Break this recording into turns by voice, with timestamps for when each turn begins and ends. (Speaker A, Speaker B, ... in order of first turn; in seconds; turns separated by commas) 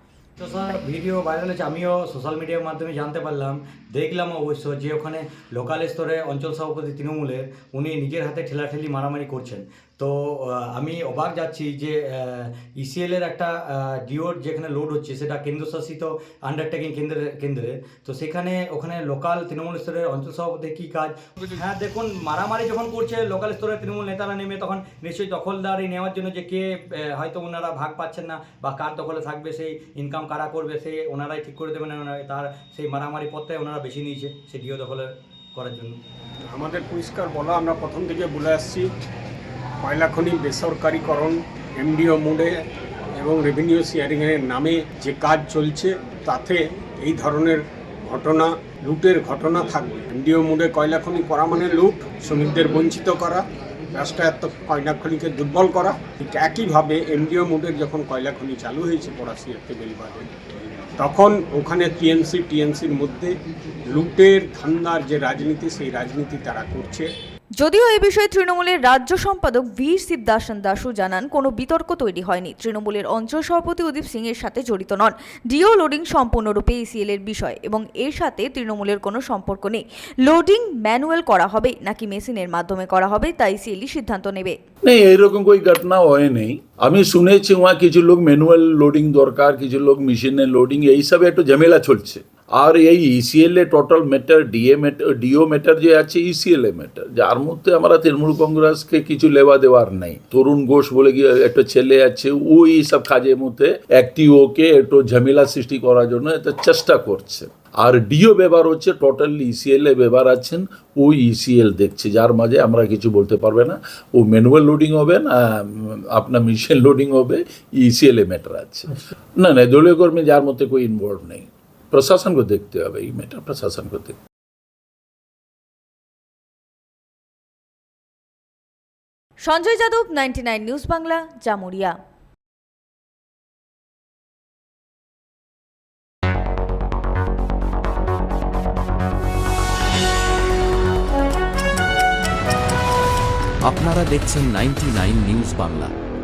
Speaker A: 0.4-36.0, Speaker B: 36.5-38.9, Speaker B: 39.8-42.6, Speaker B: 43.2-60.3, Speaker B: 61.0-63.3, Speaker B: 63.9-67.1, Speaker C: 67.6-84.5, Speaker D: 84.9-124.2, Speaker C: 129.4-132.0, Speaker E: 143.6-145.9